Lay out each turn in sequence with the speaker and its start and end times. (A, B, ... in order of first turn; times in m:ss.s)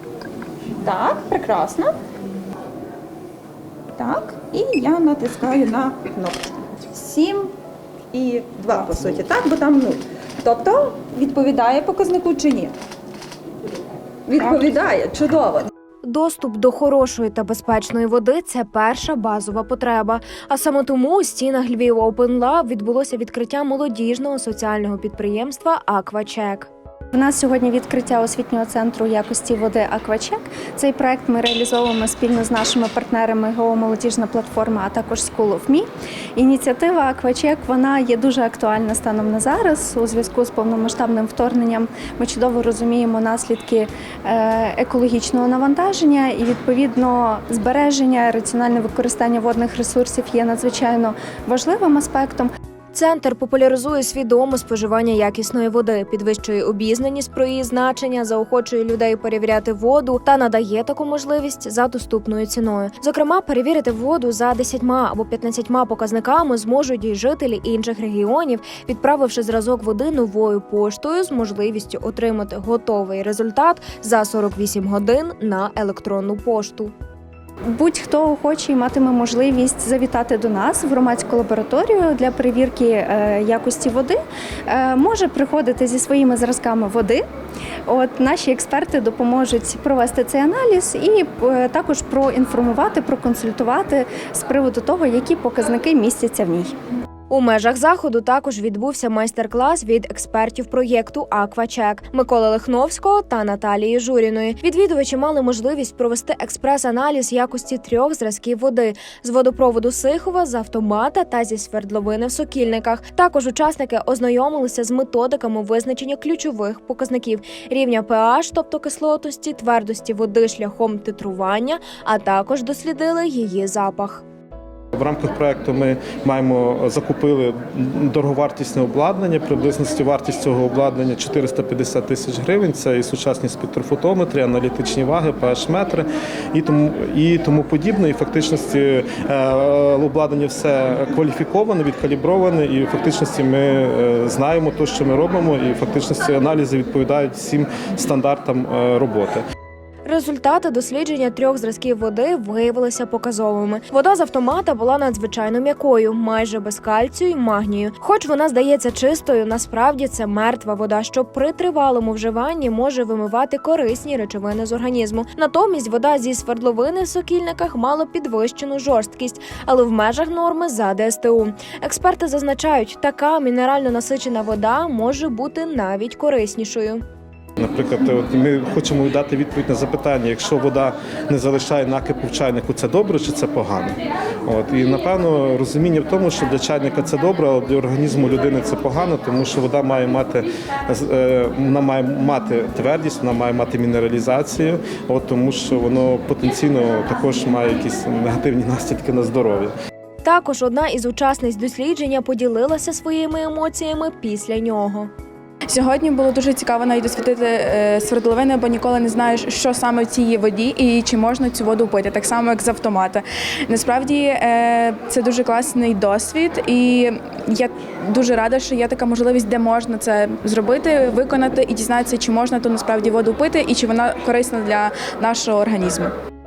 0:00.8-0:02.0 A
0:04.0-0:07.5 A
0:08.1-0:12.7 A
0:14.3-0:15.7 A
0:16.0-0:26.7 B
0:27.1-0:52.5 C
0:52.9-1:16.9 B
1:17.7-1:24.2 C
1:24.7-1:27.2 C
1:27.9-1:36.7 C
1:37.3-2:04.2 B
2:04.9-2:29.4 D
2:30.0-2:57.0 B
2:57.6-3:19.7 D
3:20.2-3:25.1 B
3:25.7-3:46.1 E